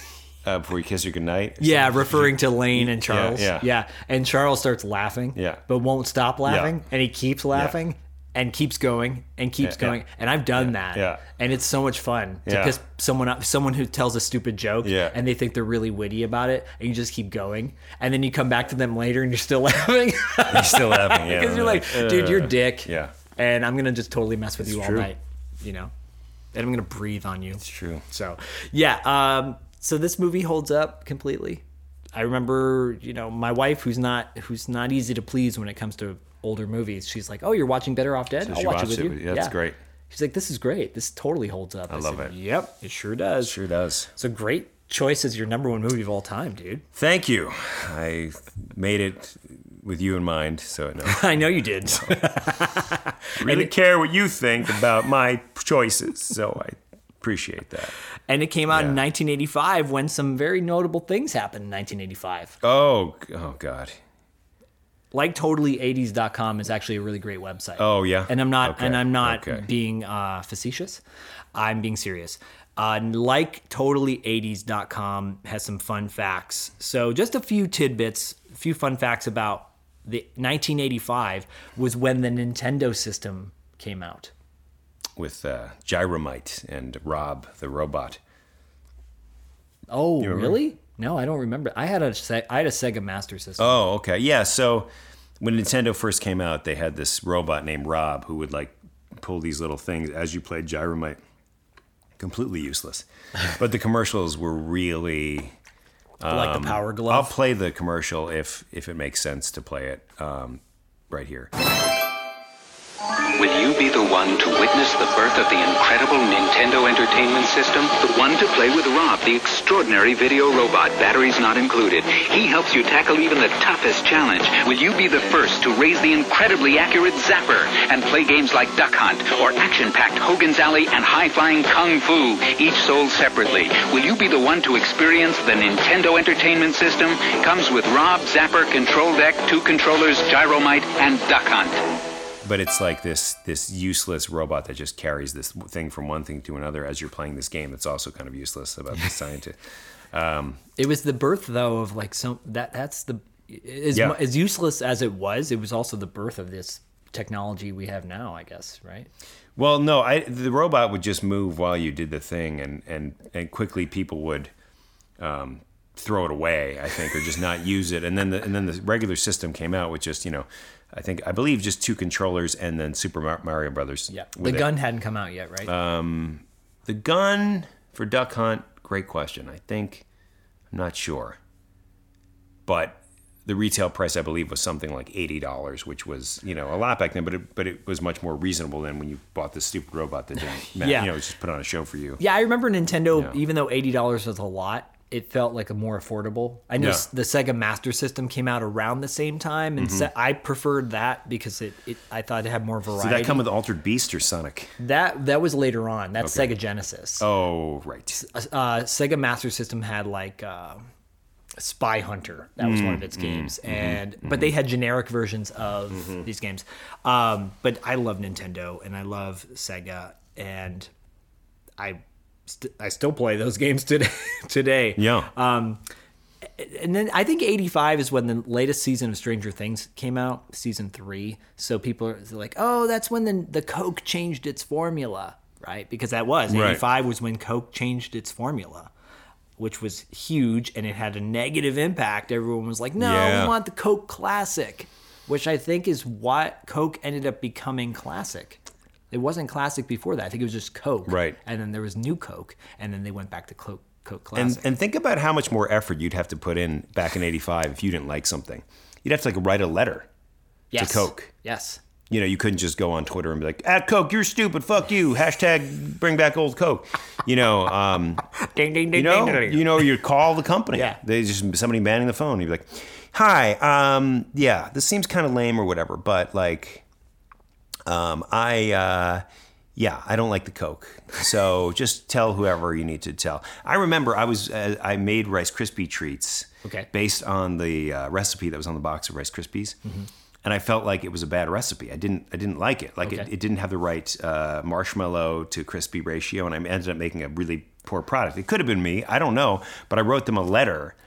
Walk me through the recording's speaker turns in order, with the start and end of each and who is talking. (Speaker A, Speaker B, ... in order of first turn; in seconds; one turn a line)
Speaker A: 0.4-3.7
Speaker B: 1.6-25.9
Speaker A: 5.3-5.6
Speaker A: 6.5-6.8
Speaker A: 9.6-10.0
Speaker A: 10.5-11.2
Speaker A: 12.5-12.8
Speaker A: 14.8-15.2
Speaker A: 20.5-23.1
Speaker A: 24.6-25.1
Speaker B: 26.5-31.6
Speaker A: 27.6-28.1
Speaker B: 32.1-39.6
Speaker A: 38.4-39.8
Speaker B: 40.1-43.5
Speaker A: 41.9-42.4
Speaker A: 43.4-44.1
Speaker B: 44.2-46.9
Speaker A: 47.0-52.4
Speaker B: 51.0-53.7
Speaker A: 53.4-57.9
Speaker B: 58.3-62.6
Speaker A: 58.7-59.0
Speaker A: 62.6-64.0
Speaker B: 65.1-71.0
Speaker A: 67.8-69.7
Speaker B: 71.5-84.3
Speaker A: 85.2-88.2
Speaker B: 89.9-93.8
Speaker A: 90.2-90.6
Speaker A: 93.6-101.2
Speaker A: 102.2-105.5
Speaker A: 106.2-111.5
Speaker B: 106.3-107.3
Speaker C: 113.4-141.8
Speaker A: 142.4-149.6
Speaker A: 150.1-150.6
Speaker B: 150.8-159.1
Speaker A: 153.9-154.2
Speaker A: 159.6-164.5
Speaker A: 165.2-174.7
Speaker B: 174.1-175.7
Speaker A: 175.7-180.1
Speaker A: 180.7-181.4
Speaker A: 182.7-192.2
Speaker B: 190.7-191.1
Speaker B: 192.2-203.4
Speaker A: 193.1-193.4
Speaker A: 196.8-197.1
Speaker A: 199.8-200.1
Speaker A: 202.9-204.7
Speaker B: 204.8-207.3
Speaker A: 206.2-206.6
Speaker A: 207.2-208.2
Speaker B: 208.1-210.8
Speaker B: 211.6-220.9
Speaker A: 212.6-214.5
Speaker A: 215.9-216.2
Speaker B: 221.8-225.8
Speaker A: 225.0-225.3
Speaker B: 226.6-238.9
Speaker A: 236.5-236.8
Speaker B: 239.6-248.6
Speaker A: 243.0-243.6
Speaker B: 249.1-254.7
Speaker A: 251.1-251.4
Speaker A: 254.3-260.1
Speaker B: 260.7-261.8
Speaker A: 260.8-261.3
Speaker A: 262.1-268.3
Speaker B: 268.4-269.9
Speaker A: 268.9-276.8
Speaker B: 270.7-271.0
Speaker A: 277.9-279.2
Speaker A: 279.8-289.8
Speaker A: 290.4-301.0
Speaker B: 293.0-293.3